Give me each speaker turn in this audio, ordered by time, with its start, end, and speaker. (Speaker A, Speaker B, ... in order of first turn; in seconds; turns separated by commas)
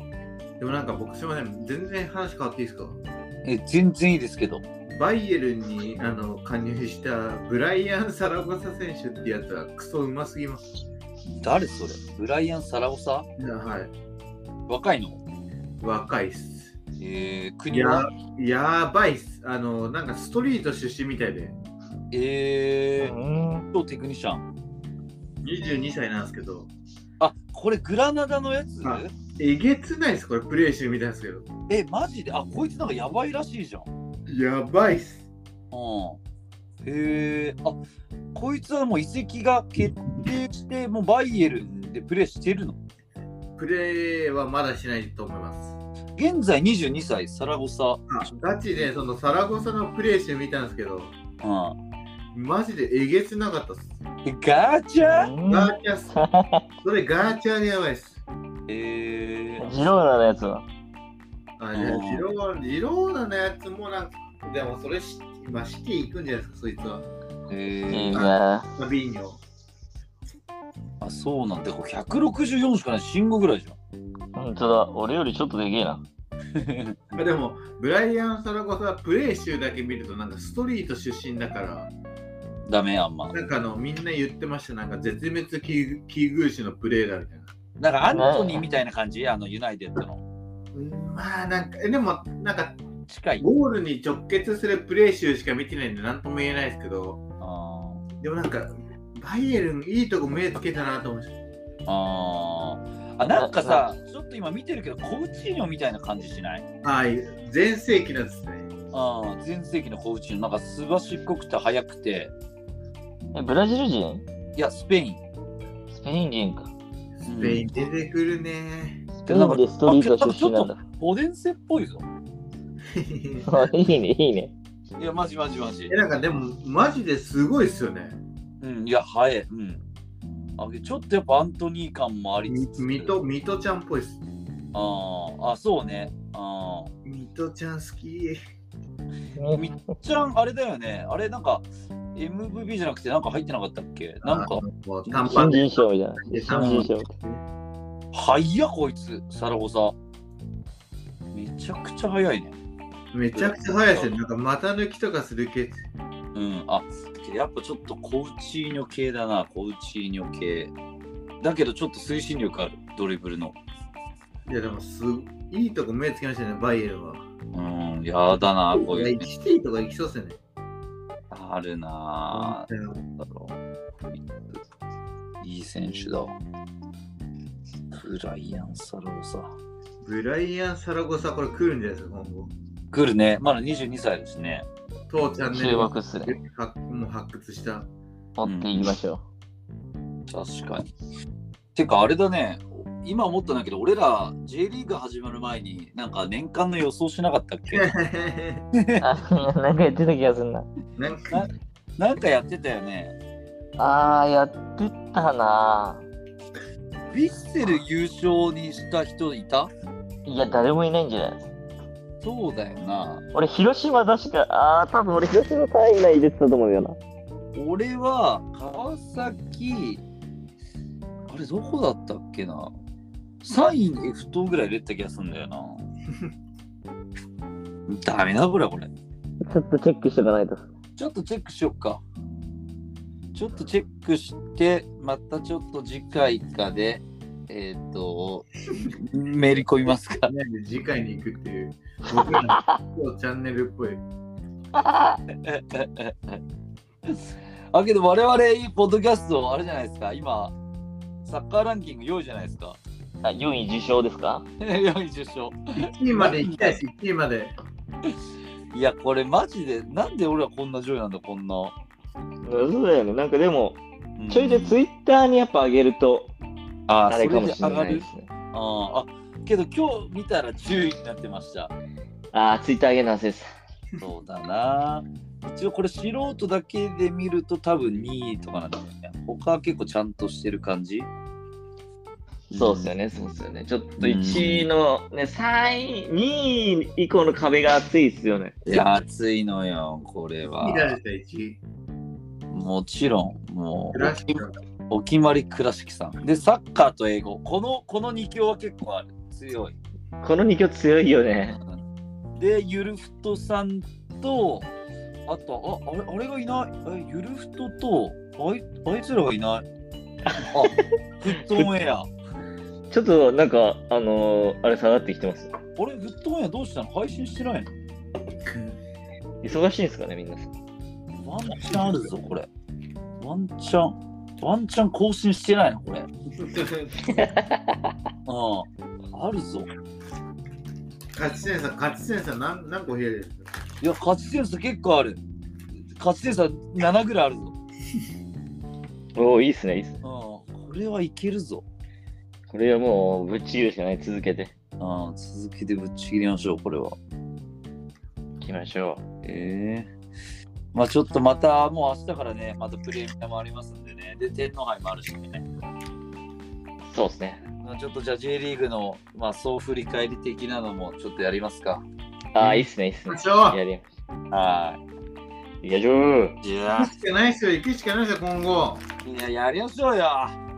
Speaker A: 0.6-3.0, Speaker B: 3.4-4.6, Speaker A: 4.8-10.6, Speaker B: 11.3-13.2, Speaker A: 13.4-13.9, Speaker B: 14.7-15.2, Speaker A: 15.8-16.7, Speaker B: 17.0-18.1, Speaker A: 17.7-21.5, Speaker B: 22.1-23.1, Speaker C: 23.0-23.7, Speaker B: 23.7-24.5, Speaker A: 25.4-26.7, Speaker B: 27.2-29.1, Speaker A: 28.8-31.5, Speaker B: 31.7-33.9, Speaker A: 34.3-35.3, Speaker B: 35.7-36.2, Speaker B: 36.8-37.8, Speaker B: 38.3-42.8, Speaker A: 43.6-45.8, Speaker B: 46.1-48.1, Speaker A: 48.1-51.1, Speaker B: 51.4-51.8, Speaker A: 52.3-54.0, Speaker B: 54.2-55.3, Speaker C: 55.0-56.6, Speaker A: 55.5-56.1, Speaker A: 56.8-58.2, Speaker B: 58.7-59.9, Speaker C: 59.6-60.6, Speaker A: 61.6-67.0, Speaker B: 61.7-62.2, Speaker B: 67.5-68.2, Speaker C: 67.9-68.7, Speaker A: 68.1-69.4, Speaker B: 71.0-73.8, Speaker C: 74.3-76.0, Speaker B: 76.5-77.2, Speaker A: 77.1-81.9, Speaker B: 82.7-83.3, Speaker A: 83.3-87.5, Speaker B: 87.8-90.2, Speaker C: 88.1-88.6, Speaker A: 90.7-92.8, Speaker B: 93.1-93.5, Speaker A: 93.3-97.2, Speaker B: 97.4-98.0, Speaker A: 98.2-101.3, Speaker B: 101.9-106.6, Speaker C: 103.2-103.9, Speaker A: 106.8-108.7, Speaker B: 108.9-112.3, Speaker C: 113.3-114.2, Speaker B: 114.5-115.2, Speaker C: 115.9-116.7, Speaker A: 117.2-119.0, Speaker B: 117.2-117.6, Speaker C: 119.2-120.8, Speaker B: 119.2-122.0, Speaker A: 122.9-123.7, Speaker C: 123.4-124.5, Speaker B: 125.0-125.9, Speaker A: 125.9-128.2, Speaker B: 128.6-129.8, Speaker B: 130.6-133.1, Speaker A: 132.5-134.2, Speaker B: 134.7-136.9, Speaker A: 137.0-138.4, Speaker C: 139.3-139.7, Speaker B: 139.5-145.3, Speaker A: 144.2-147.4, Speaker C: 145.2-147.1, Speaker B: 148.1-149.9, Speaker B: 151.3-152.5, Speaker A: 153.1-155.8, Speaker B: 153.3-154.1, Speaker B: 156.3-160.7, Speaker B: 161.4-163.6, Speaker A: 164.5-167.2, Speaker B: 167.5-169.3, Speaker A: 168.7-170.4, Speaker B: 171.3-174.6, Speaker A: 172.3-173.0, Speaker B: 175.4-176.3, Speaker B: 177.9-179.5, Speaker A: 180.0-182.5, Speaker B: 182.9-184.7, Speaker A: 185.1-187.9, Speaker C: 185.4-186.4, Speaker C: 188.4-189.2, Speaker B: 188.4-188.9, Speaker B: 190.3-190.9, Speaker B: 191.7-197.9, Speaker A: 197.7-198.6, Speaker B: 198.7-199.0, Speaker C: 199.0-200.7, Speaker A: 201.0-201.5, Speaker B: 201.3-203.1, Speaker C: 203.8-206.1, Speaker B: 207.1-209.7, Speaker C: 210.2-211.4, Speaker B: 212.2-213.2, Speaker C: 213.3-217.0, Speaker B: 217.5-220.0, Speaker B: 221.3-222.7, Speaker B: 223.4-225.8, Speaker B: 227.9-228.9, Speaker C: 229.4-230.6, Speaker B: 231.0-232.0, Speaker B: 233.3-240.3, Speaker A: 240.2-244.0, Speaker C: 242.4-242.8, Speaker C: 244.7-245.2, Speaker B: 245.4-246.4, Speaker B: 247.0-250.5, Speaker B: 251.2-252.8, Speaker C: 253.2-254.4, Speaker B: 254.6-256.8, Speaker A: 255.8-257.5, Speaker B: 258.7-261.7, Speaker C: 262.4-266.3, Speaker B: 264.2-264.8, Speaker B: 266.9-271.7, Speaker C: 267.1-268.3, Speaker C: 272.3-273.5, Speaker B: 274.0-281.1, Speaker B: 282.5-282.9, Speaker C: 282.5-288.6, Speaker B: 284.0-284.7, Speaker B: 288.6-290.9, Speaker A: 290.6-291.6, Speaker B: 292.5-299.8, Speaker A: 293.9-294.6, Speaker C: 300.2-301.6, Speaker B: 302.4-304.7, Speaker B: 305.3-309.6, Speaker C: 310.3-310.7, Speaker B: 310.5-312.1, Speaker C: 311.4-311.7, Speaker C: 312.9-315.5, Speaker B: 315.8-317.7, Speaker C: 319.4-320.5, Speaker B: 321.2-322.5, Speaker B: 323.2-326.1, Speaker A: 326.4-326.9, Speaker C: 327.0-327.9, Speaker B: 328.2-329.7, Speaker A: 331.1-333.5, Speaker B: 333.8-335.2, Speaker B: 335.9-337.5, Speaker C: 339.1-340.0, Speaker B: 340.0-341.6, Speaker C: 342.5-344.5, Speaker B: 344.8-347.0, Speaker C: 348.4-349.0, Speaker B: 349.2-349.9, Speaker B: 350.7-355.4, Speaker C: 356.8-357.4, Speaker B: 357.6-361.8, Speaker C: 362.3-363.9, Speaker A: 363.1-363.6, Speaker B: 364.3-364.8, Speaker C: 365.6-366.4, Speaker B: 366.4-366.9, Speaker A: 366.7-368.8, Speaker B: 369.0-370.4